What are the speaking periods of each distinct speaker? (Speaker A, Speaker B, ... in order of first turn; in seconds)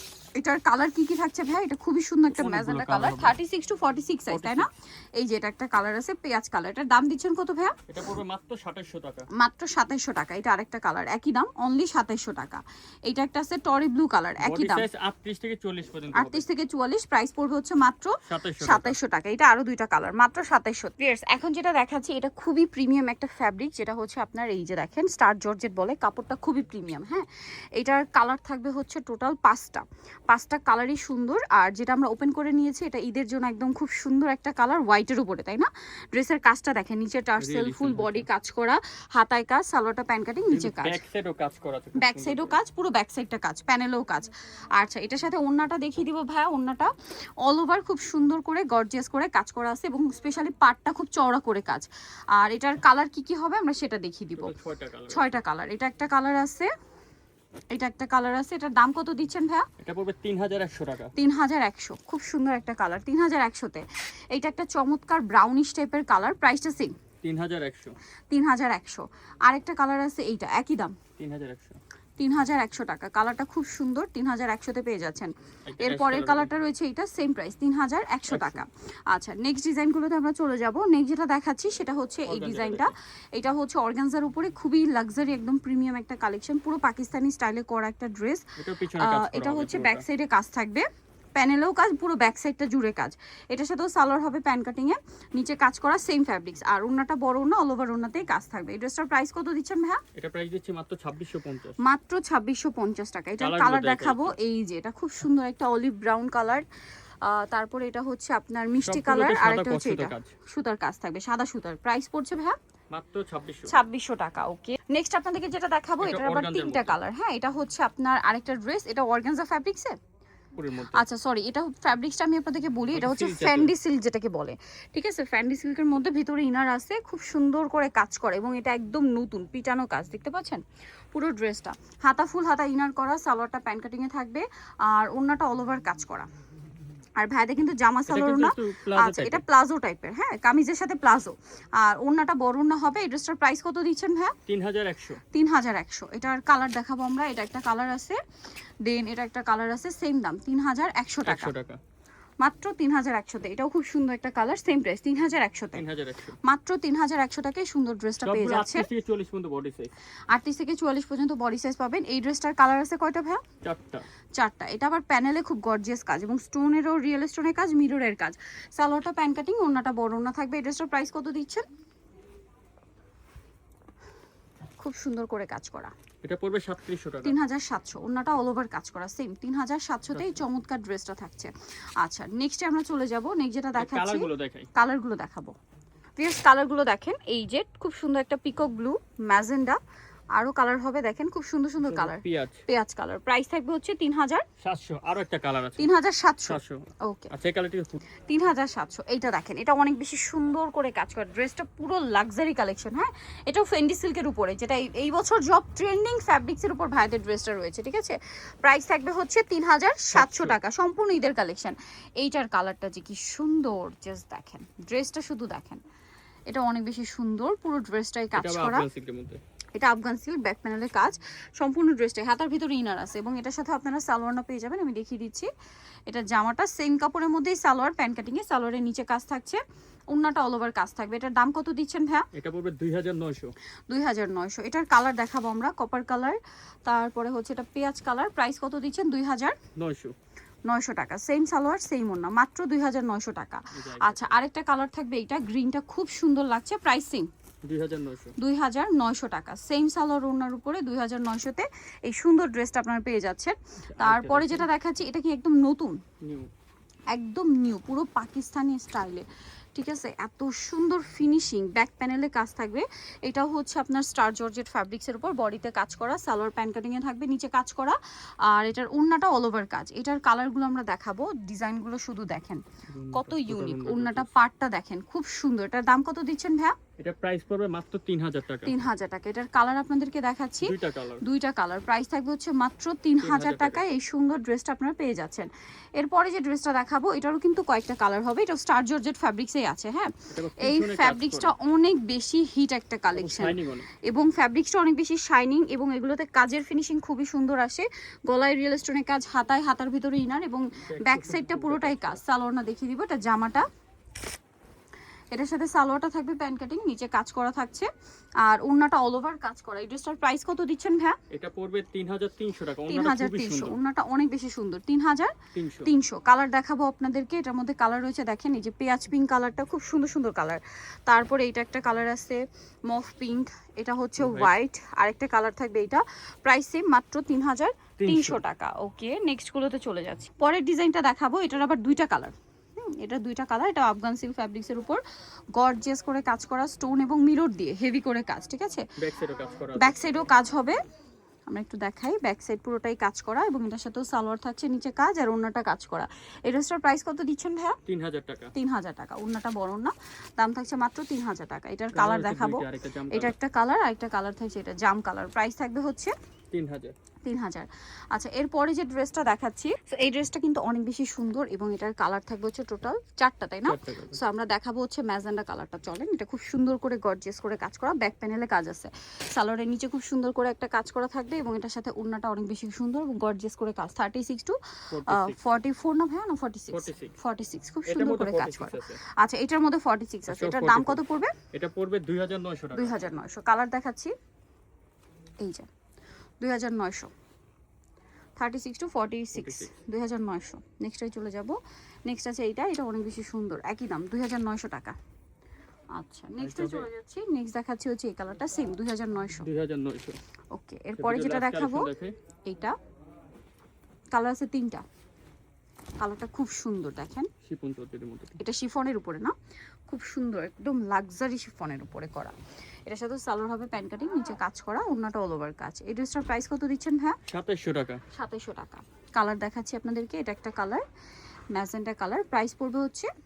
Speaker A: 0.4-7.8, 9.3-14.9, 16.1-41.0, 42.0-46.9, 47.4-54.5, 55.1-56.7, 57.7-59.7, 61.2-67.0, 68.3-71.0, 72.2-100.0, 101.8-106.7, 107.2-112.6, 113.7-120.0, 120.9-136.3, 137.2-144.4, 145.3-148.2, 148.8-151.5, 152.4-155.8, 156.4-158.9, 160.3-163.4, 164.4-171.7, 174.8-175.9, 177.2-185.5, 186.2-189.8, 190.3-194.5, 195.8-197.3, 198.3-215.8, 216.5-218.9, 219.8-225.5, 226.1-232.3, 233.9-239.6, 240.7-247.3, 248.4-256.0, 257.1-276.8, 278.7-303.7, 305.3-307.9, 308.4-311.2, 312.9-332.4, 332.9-335.0, 335.6-338.9, 339.8-340.8, 341.5-347.8, 348.6-356.1, 357.3-374.6, 375.1-381.4, 382.7-384.1, 385.4-385.7, 386.4-387.1, 388.4-395.0, 396.0-399.5, 400.5-401.9, 402.5-402.8, 404.1-404.8, 406.0-407.3, 408.4-409.4, 409.9-417.2, 418.1-420.8, 421.6-423.1
Speaker B: 2.3-3.4, 4.3-4.7, 7.9-9.3, 14.4-16.4, 18.3-19.0, 37.4-38.3, 40.5-42.6, 54.4-55.2, 59.8-61.1, 67.2-68.0, 71.2-71.8, 75.7-76.5, 78.3-78.6, 82.3-82.9, 88.6-90.0, 100.2-101.8, 103.4-104.3, 108.8-110.3, 112.9-113.8, 116.0-117.0, 120.5-121.0, 122.9-123.7, 138.1-139.4, 144.5-145.2, 151.2-151.8, 155.7-156.4, 158.2-159.9, 163.6-164.1, 176.2-177.4, 183.8-184.7, 191.8-192.6, 194.6-195.9, 196.5-198.0, 210.1-210.6, 218.4-219.4, 232.3-233.5, 239.8-240.2, 243.7-244.4, 247.6-248.3, 253.9-254.7, 256.2-256.5, 272.9-274.3, 277.0-278.8, 280.6-281.2, 283.2-283.8, 290.3-291.5, 293.1-293.9, 300.9-302.2, 311.3-313.8, 315.5-315.9, 324.2-324.5, 328.0-328.4, 339.0-340.0, 347.9-348.5, 351.9-353.4, 356.5-356.9, 363.6-364.2, 374.9-375.4, 376.7-377.1, 377.9-379.0, 380.3-381.0, 381.5-383.0, 389.4-389.7, 396.4-396.9, 399.4-400.2, 401.0-402.1, 407.4-408.4, 417.3-418.0